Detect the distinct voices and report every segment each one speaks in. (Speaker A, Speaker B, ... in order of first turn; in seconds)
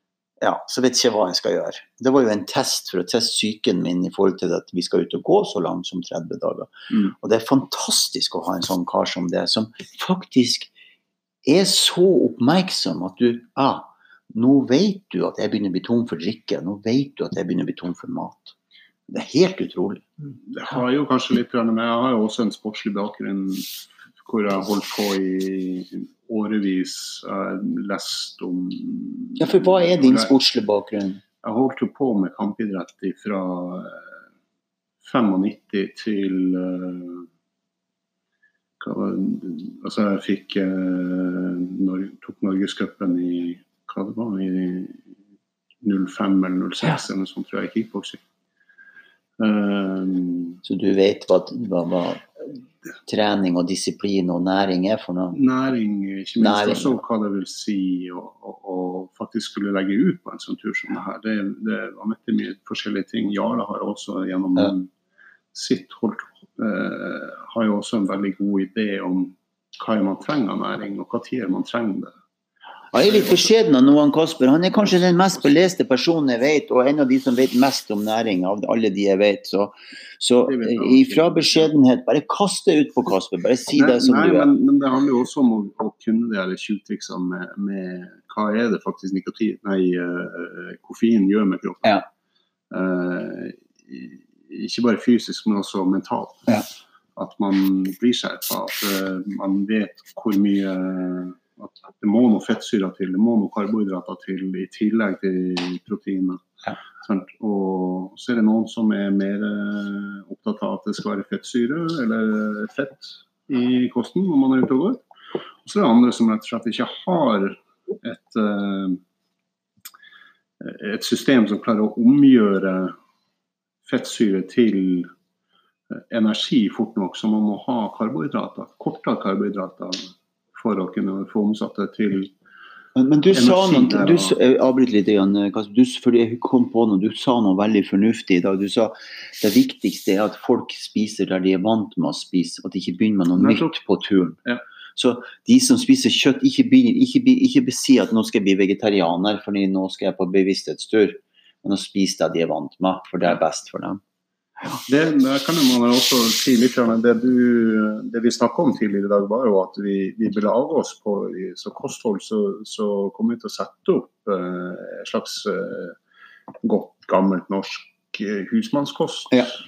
Speaker A: 0.4-10.7, 11.4-18.5, 19.1-20.1, 29.4-31.2, 50.6-55.4, 56.4-57.0, 72.9-84.5, 132.9-144.4, 144.9-154.0
Speaker B: 20.4-30.3, 31.4-34.1, 35.0-37.3, 38.8-45.0, 45.8-48.2, 49.4-50.6, 55.3-64.9, 65.5-72.1, 80.5-81.7, 83.8-92.0, 92.7-96.6, 97.2-106.5, 107.0-115.0, 115.6-119.0, 120.6-122.9, 123.8-125.1, 125.9-132.3, 133.3-134.3, 143.4-143.7, 154.9-165.9, 166.6-169.5